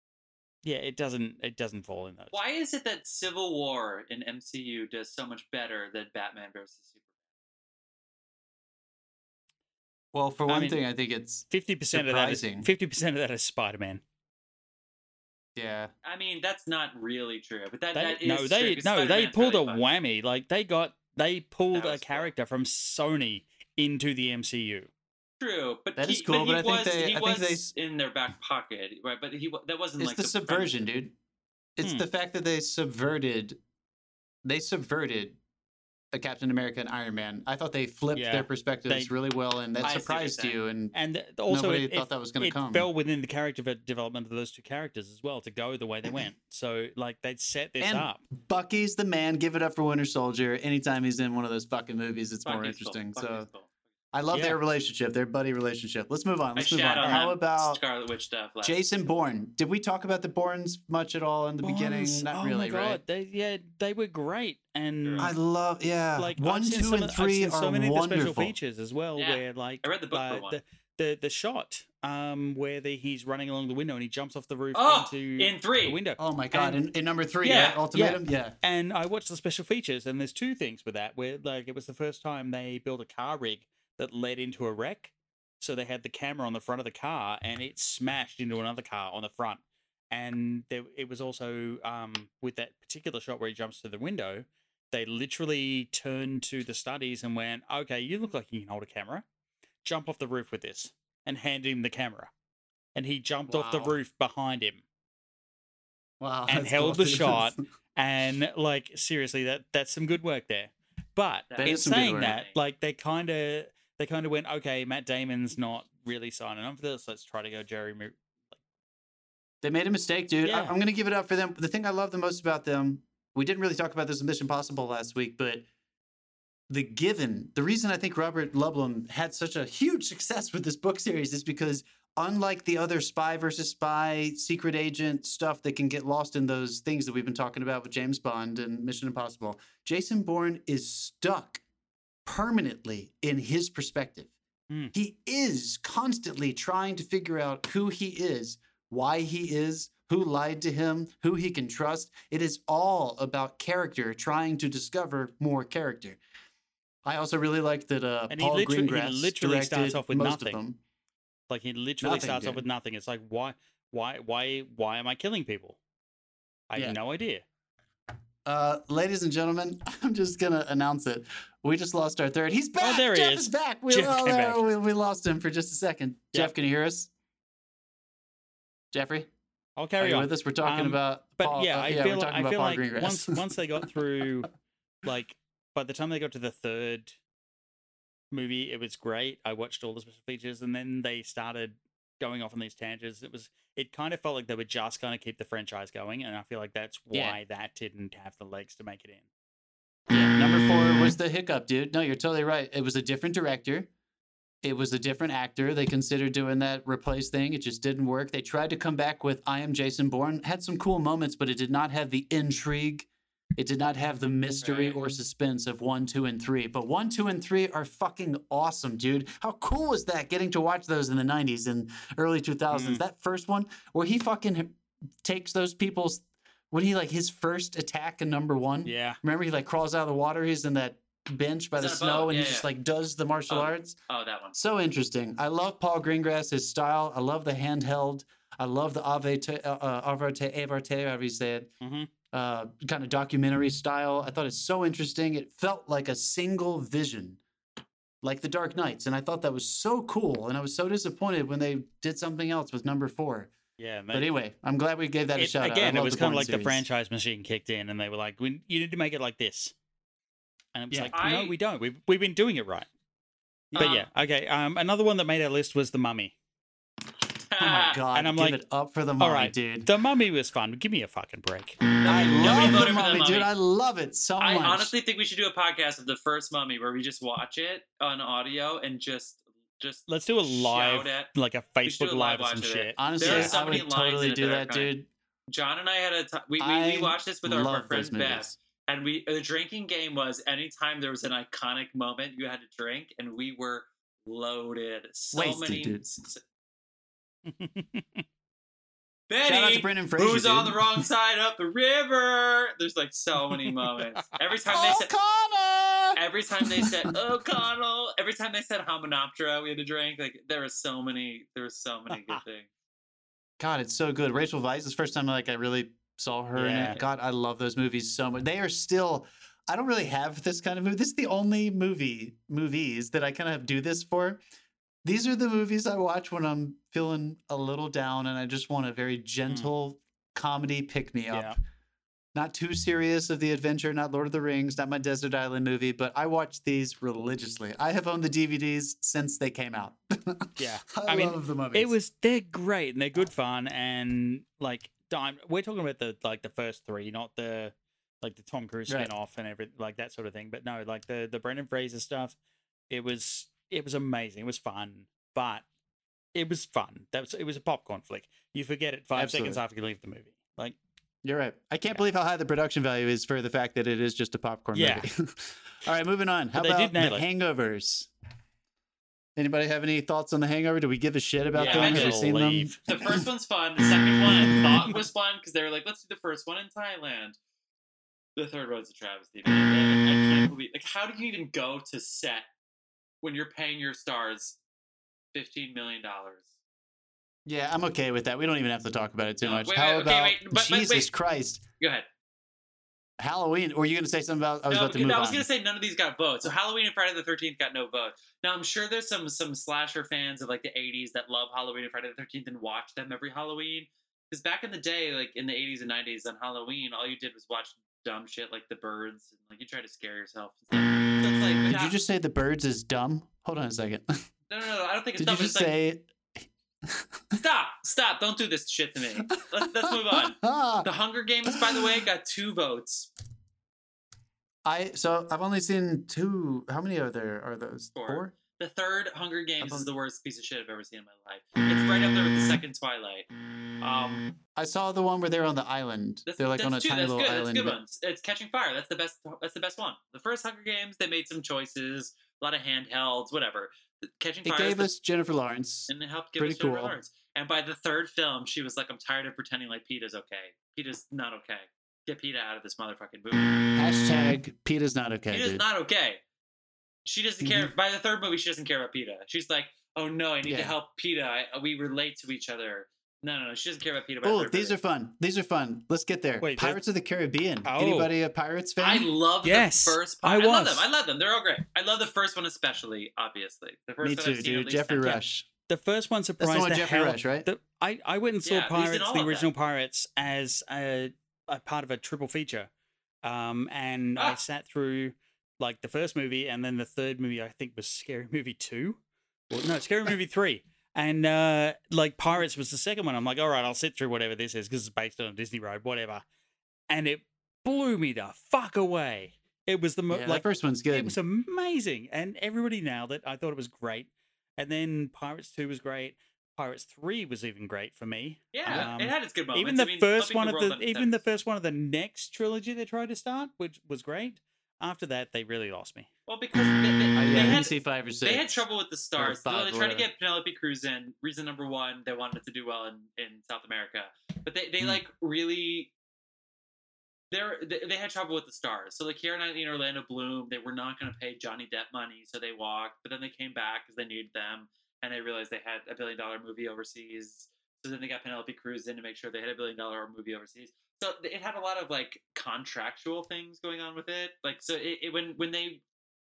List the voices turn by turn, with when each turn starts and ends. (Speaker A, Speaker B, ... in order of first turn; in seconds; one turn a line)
Speaker A: 0.6-2.4
Speaker B: 2.3-7.0
Speaker C: 10.1-12.7
Speaker A: 10.5-10.8
Speaker A: 11.5-14.0
Speaker C: 15.6-15.9
Speaker B: 16.0-19.8
Speaker A: 17.9-24.9
Speaker B: 21.7-22.3
Speaker B: 25.4-30.8
Speaker C: 26.0-27.7
Speaker C: 30.0-31.1
Speaker C: 31.8-33.6
Speaker C: 34.4-35.4
Speaker C: 36.1-40.9
Speaker A: 38.1-39.1
Speaker B: 39.8-40.6
Speaker A: 40.9-48.2
Speaker C: 41.5-42.9
Speaker C: 47.8-53.5
Speaker B: 52.5-53.7
Speaker C: 54.1-57.8
Speaker A: 54.3-54.6
Speaker B: 56.6-58.8
Speaker C: 58.6-63.0
Speaker A: 61.6-65.4
Speaker B: 65.0-65.3
Speaker C: 65.2-68.5
Speaker A: 66.2-76.8
Speaker B: 69.2-70.6
Speaker B: 74.8-76.0
Speaker C: 76.2-78.5
Speaker A: 77.4-99.2
Speaker B: 77.5-77.8
Speaker A: 99.8-102.3
Speaker A: 103.0-104.8
Speaker C: 103.5-104.0
Speaker C: 106.2-107.5
Speaker A: 106.5-118.2
Speaker B: 111.5-112.6
Speaker C: 111.6-112.4
Speaker C: 119.6-125.7
Speaker A: 120.5-120.7
Speaker C: 126.7-141.6
Speaker C: 142.2-144.3
Speaker C: 144.9-156.2
Speaker C: 157.1-160.8
Speaker A: 158.3-160.6
Speaker A: 161.5-165.8
Speaker C: 162.0-162.6
Speaker A: 166.7-167.4
Speaker C: 168.4-177.1
Speaker A: 172.8-174.6
Speaker C: 178.9-179.3
Speaker A: 179.8-184.5
Speaker C: 180.0-183.4
Speaker A: 185.0-187.2
Speaker A: 188.3-199.3
Speaker C: 197.1-197.4
Speaker C: 200.1-203.9
Speaker C: 204.6-234.0
Speaker B: 214.6-215.0
Speaker A: 222.7-223.0
Speaker A: 228.9-229.2
Speaker B: 231.8-232.7
Speaker B: 233.5-234.6
Speaker C: 234.6-241.7
Speaker A: 241.8-242.1
Speaker C: 242.3-247.4
Speaker C: 248.2-253.5
Speaker A: 253.8-254.3
Speaker C: 254.1-256.9
Speaker A: 255.4-259.7
Speaker A: 260.7-262.9
Speaker B: 261.1-261.5
Speaker C: 263.7-264.0
Speaker B: 263.8-264.1
Speaker A: 263.8-266.3
Speaker B: 267.5-268.0
Speaker C: 267.6-269.9
Speaker A: 268.1-268.6
Speaker A: 269.2-271.8
Speaker B: 272.0-273.5
Speaker C: 272.1-274.9
Speaker B: 274.4-281.3
Speaker A: 280.1-283.5
Speaker B: 281.9-284.9
Speaker C: 283.0-285.1
Speaker B: 285.5-296.4
Speaker C: 286.6-288.5
Speaker C: 295.3-296.1
Speaker A: 297.5-298.2
Speaker B: 299.3-305.1
Speaker C: 299.4-301.1
Speaker C: 304.7-307.1
Speaker B: 306.1-312.7
Speaker C: 313.6-324.4
Speaker A: 316.6-317.0
Speaker C: 325.0-331.6
Speaker C: 332.4-341.9
Speaker A: 340.6-352.4
Speaker A: 352.9-355.6
Speaker A: 356.4-360.8
Speaker C: 359.1-359.6
Speaker C: 361.2-368.1
Speaker A: 364.7-365.1
Speaker A: 366.6-367.2
Speaker C: 369.4-373.2
Speaker A: 371.6-372.8
Speaker B: 371.6-372.3
Speaker B: 372.9-377.4
Speaker B: 378.4-382.5
Speaker B: 383.2-384.6
Speaker B: 385.3-386.5
Speaker C: 387.5-391.6
Speaker B: 389.4-391.1
Speaker B: 391.8-392.1
Speaker C: 393.2-395.5
Speaker B: 394.7-412.0
Speaker C: 411.7-414.1
Speaker B: 414.5-415.8
Speaker C: 415.2-416.1
Speaker B: 417.3-423.1
Speaker C: 419.9-420.9
Speaker C: 421.5-421.8
Speaker C: 424.6-428.4
Speaker B: 428.0-433.3
Speaker C: 429.6-429.9
Speaker B: 433.8-434.3
Speaker C: 434.6-437.8
Speaker B: 436.3-444.9
Speaker C: 444.4-447.0
Speaker B: 445.9-453.7
Speaker C: 453.8-455.6
Speaker B: 455.3-456.2
Speaker B: 457.1-464.8
Speaker C: 457.4-457.7
Speaker C: 460.5-460.8
Speaker C: 464.2-469.1
Speaker A: 466.4-466.8
Speaker A: 467.6-468.1
Speaker B: 468.8-475.2
Speaker A: 469.4-470.9
Speaker C: 474.0-475.5
Speaker A: 475.0-482.7
Speaker C: 476.4-477.5
Speaker B: 478.4-479.5
Speaker A: 483.2-489.0
Speaker A: 489.5-496.2
Speaker A: 496.9-516.1
Speaker C: 500.1-501.2
Speaker B: 508.5-511.2
Speaker B: 516.3-525.9
Speaker C: 517.2-518.6
Speaker C: 519.2-520.1
Speaker B: 527.3-545.8